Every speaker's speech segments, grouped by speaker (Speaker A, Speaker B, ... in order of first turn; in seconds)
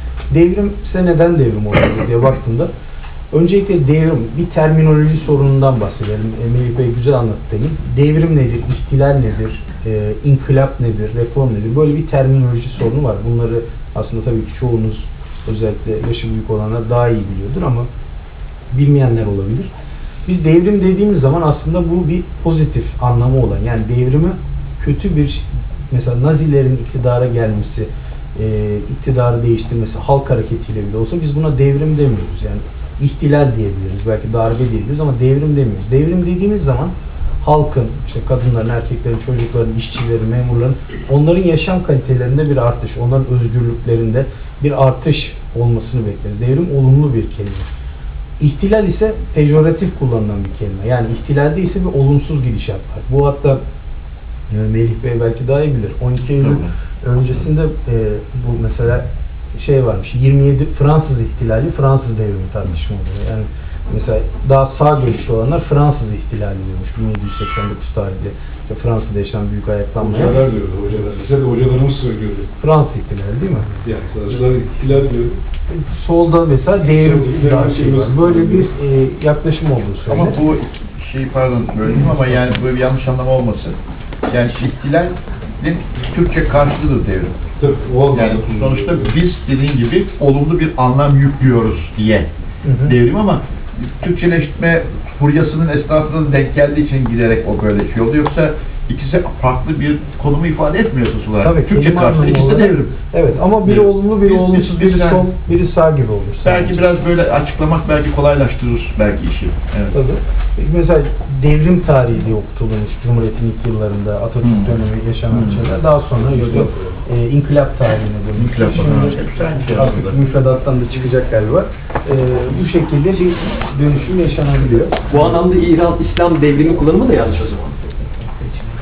Speaker A: 0.3-2.7, 3.3-17.9, 18.7-19.7, 20.3-47.7, 48.4-53.6, 54.5-70.4, 72.6-73.8, 75.7-80.4, 92.6-93.0, 101.4-106.9, 109.9-125.2
Speaker B: 56.4-56.7, 80.1-83.8, 84.3-87.4, 88.1-92.3, 92.8-102.9, 103.6-105.3, 106.4-110.0, 114.4-115.8, 116.3-116.7, 118.4-120.2
Speaker C: 70.0-72.5, 73.8-75.4, 76.9-78.7, 87.6-89.2
Speaker D: 125.1-128.6